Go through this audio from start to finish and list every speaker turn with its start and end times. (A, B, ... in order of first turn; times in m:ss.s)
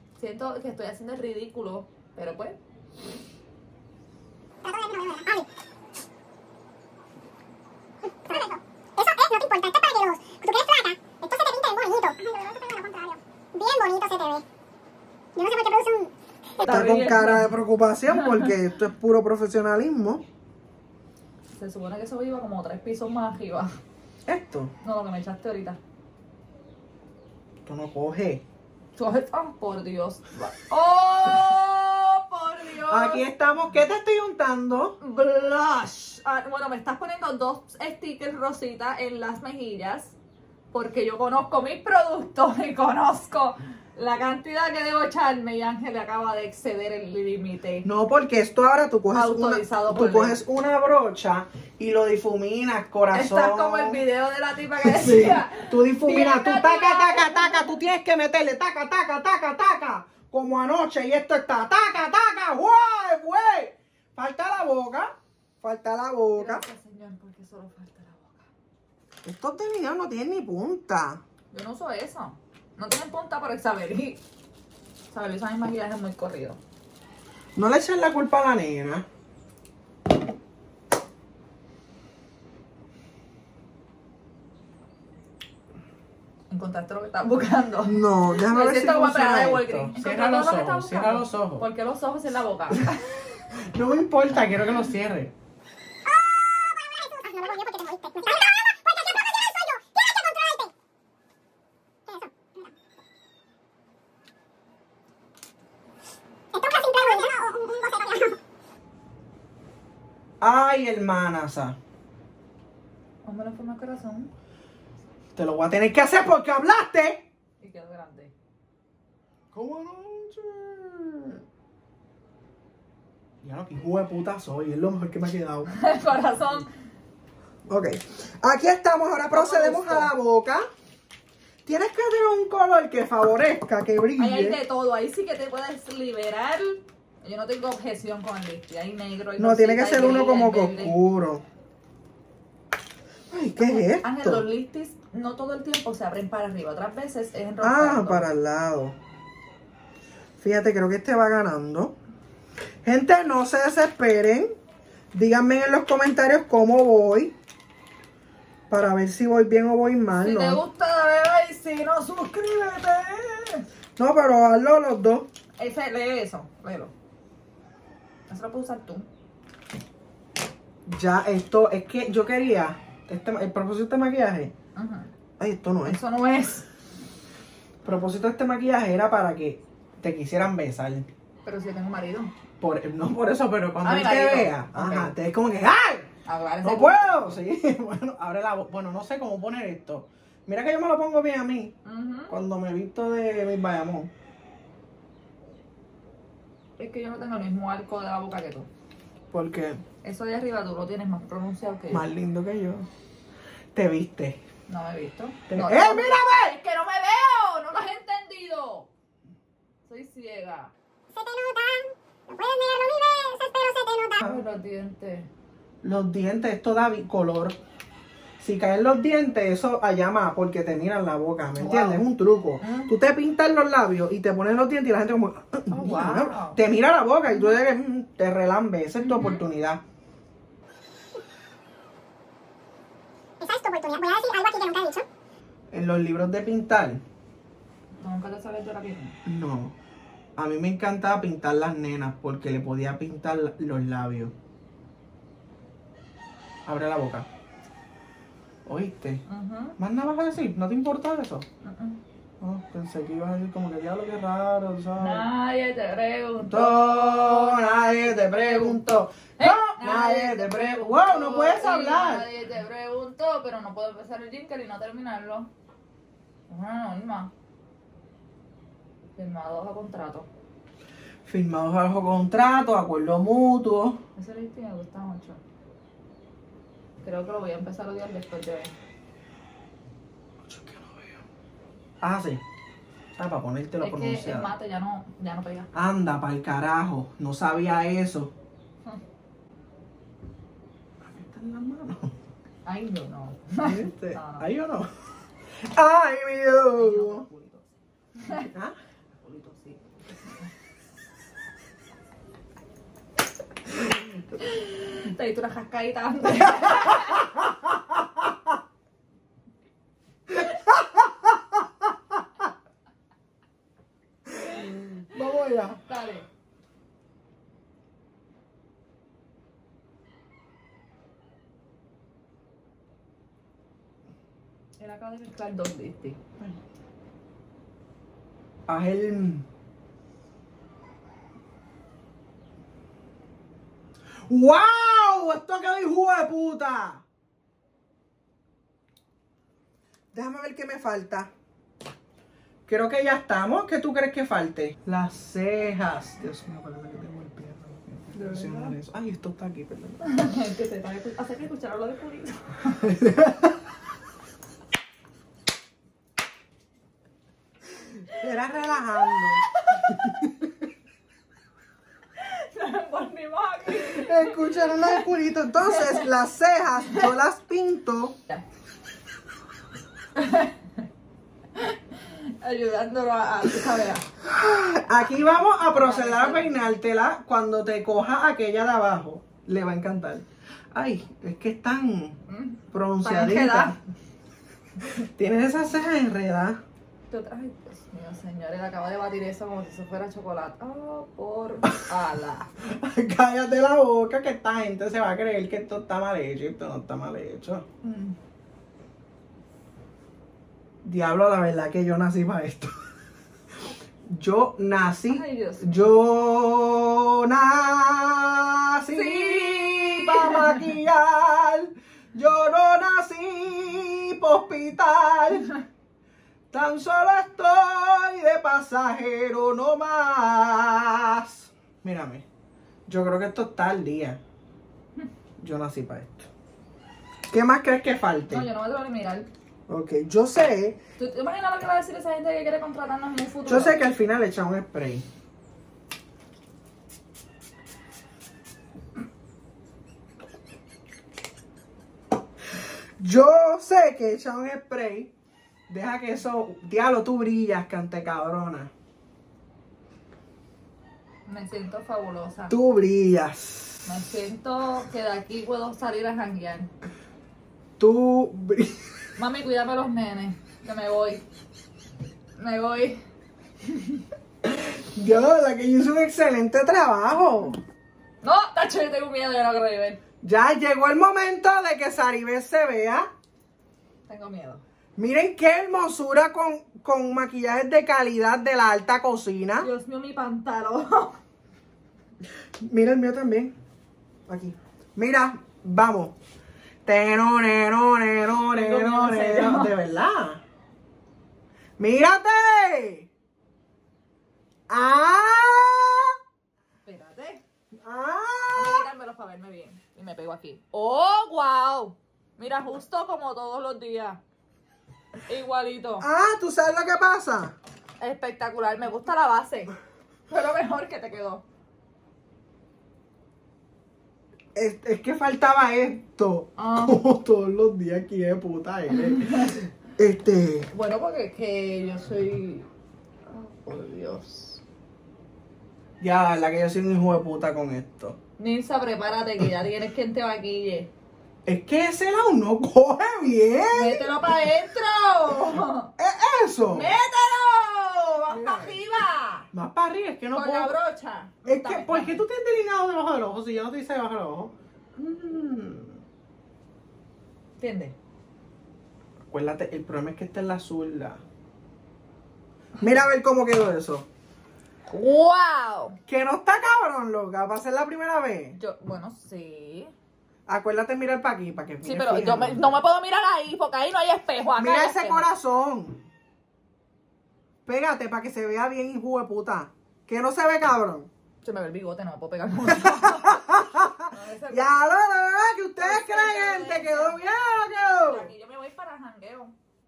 0:00.2-0:02.6 A
0:04.6-0:05.4 B
0:08.1-0:14.4 B
0:15.4-0:16.1 B
0:16.6-0:17.5 A
0:16.6-0:20.2 C
0:18.1-0:18.5 A
0:21.6-0:23.7 A
0:24.2-0:24.7 C
0:24.8-0:25.8 A
0:27.6-0:28.4 C
0:29.0-0:33.2 A
0:32.9-0:35.0 C
0:35.0-0:40.2 A
0:40.7-0:47.9 A
0:47.8-0:54.0 C
0:49.1-0:50.4 A
0:53.1-0:57.8 A
0:54.8-1:06.6 C
1:06.4-1:08.5 A
1:09.2-1:11.2 C
1:11.5-1:14.2 A
1:15.1-1:16.6 A
1:17.6-1:19.0 C
1:26.5-1:33.1 A
1:27.8-1:31.7 C
1:32.7-1:33.0 C
1:33.5-1:35.3 C
1:36.0-1:40.7 B
1:42.1-1:42.7 B
1:46.5-1:48.4 B
1:50.4-1:51.8 C
1:53.2-1:54.3 A
1:55.4-1:57.2 C
1:57.6-1:58.3 A
1:59.5-2:01.4 C
2:03.4-2:05.7 C
2:05.7-2:06.7 A
2:07.7-2:10.6 C
2:09.3-2:10.1 A
2:11.6-2:14.6 C
2:14.2-2:20.9 A
2:19.4-2:21.4 C
2:23.3-2:24.4 C
2:23.6-2:28.3 A
2:27.6-2:29.0 C
2:30.4-2:31.9 C
2:32.8-2:34.5 C
2:35.1-2:37.4 C
2:38.7-2:40.6 C
2:40.2-2:43.6 A
2:44.0-2:45.3 C
2:45.6-2:46.9 A
2:48.3-2:49.1 A
2:50.9-2:54.5 C
2:54.7-2:55.1 A
2:55.4-2:56.0 C
2:55.8-2:56.7 A
2:57.8-3:01.1 C
3:01.4-3:02.3 A
3:02.6-3:06.1 C
3:03.8-3:05.1 A
3:06.2-3:07.4 A
3:06.6-3:11.8 C
3:11.8-3:12.4 A
3:12.3-3:14.1 C
3:16.8-3:18.7 A
3:19.3-3:19.8 C
3:20.0-3:22.1 A
3:21.9-3:22.9 C
3:23.7-3:24.4 C
3:24.7-3:28.9 A
3:25.5-3:26.6 C
3:29.9-3:30.7 A
3:31.1-3:34.3 B
3:34.2-3:35.3 A
3:35.8-3:37.6 C
3:38.4-3:49.8 C
3:41.6-3:42.0 A
3:42.6-3:42.9 A
3:45.7-3:46.6 A
3:49.0-3:49.4 A
3:53.4-3:55.1 B
3:55.7-3:57.0 C
3:58.0-3:59.2 A
3:59.2-3:59.8 C
4:00.4-4:04.3 C
4:06.6-4:07.3 C
4:08.6-4:09.2 C
4:09.3-4:09.8 A
4:09.8-4:11.5 C
4:11.6-4:12.0 A
4:12.4-4:15.2 C
4:15.0-4:18.8 A
4:16.4-4:22.3 C
4:19.4-4:25.5 A
4:26.5-4:27.3 A
4:29.2-4:30.3 A
4:31.2-4:34.0 C
4:34.2-4:35.4 A
4:37.0-4:38.7 A
4:40.4-4:41.2 C
4:42.0-4:42.4 C
4:43.1-4:44.5 C
4:43.8-4:45.7 A
4:45.7-4:48.3 C
4:51.0-4:52.1 C
4:52.6-4:54.5 A
4:53.6-4:54.9 C
4:55.6-4:57.3 C
4:56.8-4:58.5 A
4:58.3-4:58.8 C
4:59.2-5:00.5 A
5:04.4-5:07.3 A
5:06.5-5:08.3 C
5:10.3-5:11.9 C
5:14.2-5:15.8 C
5:15.8-5:16.2 A
5:24.8-5:26.2 A
5:28.7-5:29.5 C
5:34.3-5:37.0 C
5:40.1-5:41.3 C
5:42.7-5:50.0 C
5:48.1-5:48.8 A
5:50.0-5:52.9 A
5:52.8-5:53.6 C
5:57.9-6:00.5 C
5:59.0-6:00.1 A
6:02.2-6:05.0 A
6:03.7-6:08.2 C
6:05.6-6:06.1 A
6:10.2-6:10.6 A
6:11.5-6:14.1 A
6:14.2-6:22.2 C
6:15.7-6:16.6 A
6:22.3-6:23.8 A
6:22.7-6:23.8 C
6:24.9-6:26.6 C
6:27.1-6:32.5 A
6:31.6-6:31.9 C
6:32.6-6:37.6 C
6:37.8-6:38.2 A
6:40.8-6:42.8 C
6:44.1-6:55.5 C
6:45.1-6:45.8 A
6:48.9-6:50.7 A
6:56.5-7:02.2 C
7:02.9-7:04.2 C
7:05.4-7:06.3 C
7:07.3-7:08.5 C
7:08.3-7:09.3 A
7:09.7-7:10.8 C
7:11.0-7:13.9 A
7:13.5-7:15.0 C
7:23.0-7:25.1 C
7:25.7-7:28.7 C
7:31.2-7:32.6 A
7:32.5-7:33.8 C
7:33.8-7:36.7 A
7:37.8-7:38.9 C
7:39.2-7:41.2 A
7:42.4-7:43.0 A
7:43.6-7:44.0 A
7:44.4-7:47.6 C
7:48.2-7:50.0 A
7:50.2-7:53.1 C
7:54.1-7:54.6 A
7:55.0-7:59.7 C
7:59.6-8:01.2 A
8:02.6-8:03.5 C
8:04.3-8:06.2 C
8:06.8-8:10.4 C
8:08.5-8:09.8 A
8:11.8-8:13.1 C
8:14.7-8:16.2 C
8:16.8-8:17.4 A
8:17.7-8:18.9 C
8:18.6-8:24.2 A
8:25.2-8:26.1 A
8:26.0-8:27.5 C
8:28.0-8:29.7 A
8:30.3-8:31.4 A
8:34.5-8:40.7 C
8:36.6-8:37.0 A
8:38.9-8:39.6 A
8:40.7-8:42.7 A
8:43.3-8:44.6 A
8:46.0-8:48.2 C
8:48.4-8:50.9 A
8:51.5-8:54.1 C
8:53.7-8:55.9 A
8:56.0-8:57.0 C
8:56.7-8:59.5 A
8:58.3-8:58.8 C
8:59.5-9:00.8 C
9:00.3-9:02.2 A
9:01.4-9:06.0 C
9:07.6-9:08.0 A
9:09.3-9:11.2 C
9:12.8-9:14.1 C
9:14.9-9:16.0 A
9:16.1-9:18.6 C
9:18.5-9:19.9 A
9:20.5-9:22.8 C
9:21.8-9:25.3 A
9:24.6-9:26.0 C
9:27.6-9:31.1 C
9:31.4-9:33.5 A
9:32.6-9:38.3 C
9:34.1-9:34.7 A
9:35.8-9:37.2 A
9:38.1-9:39.5 A